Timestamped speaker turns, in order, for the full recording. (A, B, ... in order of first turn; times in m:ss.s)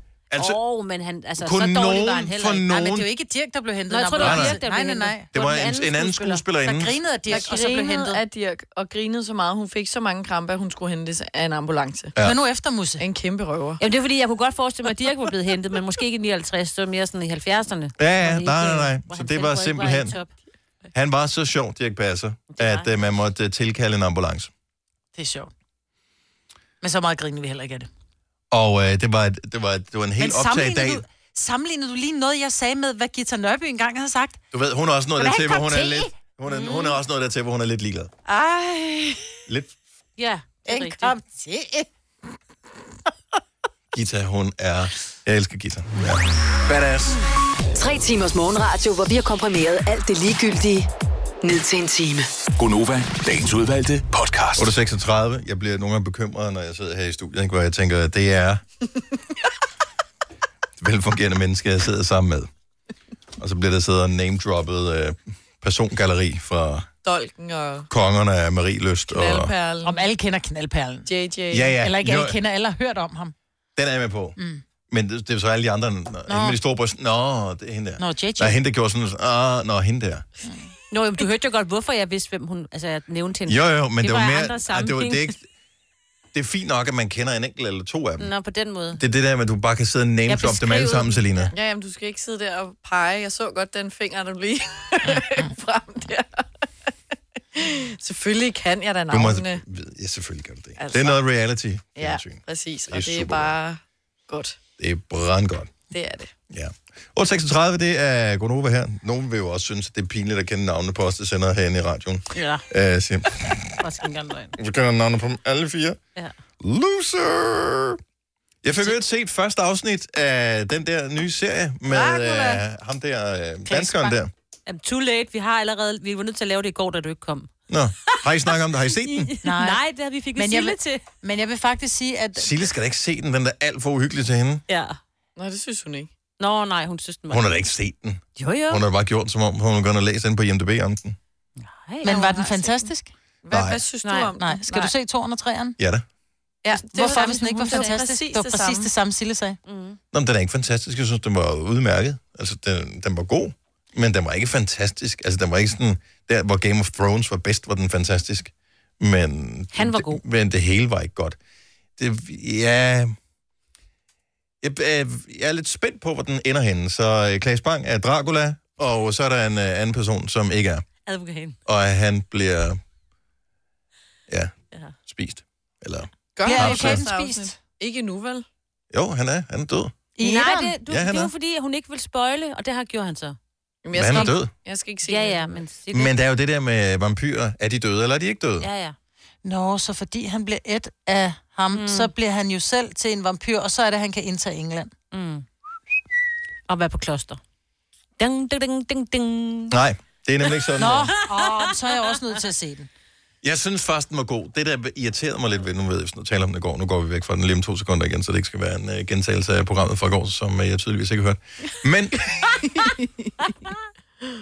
0:00.3-0:00.6 A
0:00.3-0:02.6 B
0:01.4-0:03.1 A
0:02.4-0:05.3 C
0:03.9-0:06.4 B
0:04.2-0:04.6 A
0:05.3-0:07.0 A
0:06.6-0:08.2 C
0:07.3-0:07.5 B
0:07.3-0:12.2 D
0:12.2-0:13.0 C
0:13.0-0:13.8 D
0:13.8-0:20.3 B
0:18.0-0:20.2 A
0:20.9-0:24.5 A
0:22.5-0:22.9 B
0:25.1-0:25.5 C
0:26.8-0:27.9 C
0:28.5-0:31.0 A
0:30.2-0:34.4 C
0:34.5-0:38.1 A
0:35.2-0:36.1 C
0:36.4-0:37.0 B
0:38.3-0:39.2 C
0:39.5-0:39.8 A
0:40.2-0:41.2 B
0:40.6-0:41.9 C
0:43.9-0:47.2 A
0:47.7-0:50.9 E
0:51.4-0:52.3 E
0:52.6-0:54.7 F
0:54.6-0:58.6 A
1:00.8-1:02.5 A
1:03.4-1:06.9 A
1:07.0-1:07.9 D
1:07.9-1:09.5 A
1:09.1-1:10.0 D
1:09.8-1:11.1 C
1:11.0-1:11.8 D
1:11.5-1:12.4 A
1:11.8-1:13.3 C
1:13.8-1:14.4 A
1:14.9-1:20.2 A
1:16.3-1:16.6 C
1:18.0-1:18.6 C
1:20.4-1:20.7 C
1:20.9-1:25.3 B
1:23.5-1:25.4 A
1:26.3-1:28.3 A
1:28.2-1:29.0 B
1:28.9-1:31.5 A
1:30.3-1:31.5 B
1:31.5-1:36.5 D
1:35.1-1:35.4 C
1:37.5-1:39.6 D
1:39.1-1:43.5 A
1:40.8-1:41.2 D
1:42.0-1:44.6 D
1:44.8-1:45.7 A
1:45.9-1:46.3 D
1:46.5-1:53.8 A
1:52.3-1:52.6 B
1:53.8-1:54.5 B
1:54.6-1:56.0 A
1:56.6-1:58.0 A
1:58.6-2:04.3 A
2:01.9-2:02.6 D
2:03.6-2:04.1 C
2:04.7-2:07.5 B
2:07.7-2:09.3 A
2:08.9-2:11.0 B
2:09.4-2:09.8 C
2:10.4-2:12.5 C
2:12.4-2:14.6 A
2:14.7-2:15.0 B
2:15.4-2:16.1 D
2:16.4-2:17.5 B
2:17.3-2:21.2 A
2:18.4-2:18.8 B
2:21.6-2:22.1 B
2:22.0-2:23.1 C
2:22.0-2:22.9 D
2:23.4-2:24.9 D
2:23.5-2:23.8 A
2:24.0-2:24.3 B
2:24.4-2:25.8 C
2:25.8-2:26.0 A
2:26.6-2:28.9 D
2:26.7-2:29.6 C
2:26.9-2:28.0 B
2:29.7-2:30.0 B
2:30.1-2:41.4 A
2:39.7-2:40.2 B
2:42.0-2:43.1 A
2:44.6-2:50.9 A
2:51.0-2:51.6 B
2:51.6-2:52.8 A
2:54.3-2:57.1 A
2:56.4-2:58.4 D
2:56.4-2:57.6 C
2:58.9-3:00.0 A
3:00.2-3:00.8 C
3:00.2-3:03.4 B
3:00.9-3:01.3 A
3:03.8-3:05.6 D
3:03.9-3:04.5 A
3:05.1-3:06.1 B
3:05.9-3:08.7 A
3:08.6-3:09.0 B
3:09.4-3:14.9 C
3:11.7-3:12.1 B
3:15.1-3:15.4 B
3:16.7-3:17.4 B
3:18.2-3:19.8 B
3:19.7-3:21.1 A
3:20.8-3:22.9 C
3:23.4-3:32.6 A
3:32.8-3:33.5 D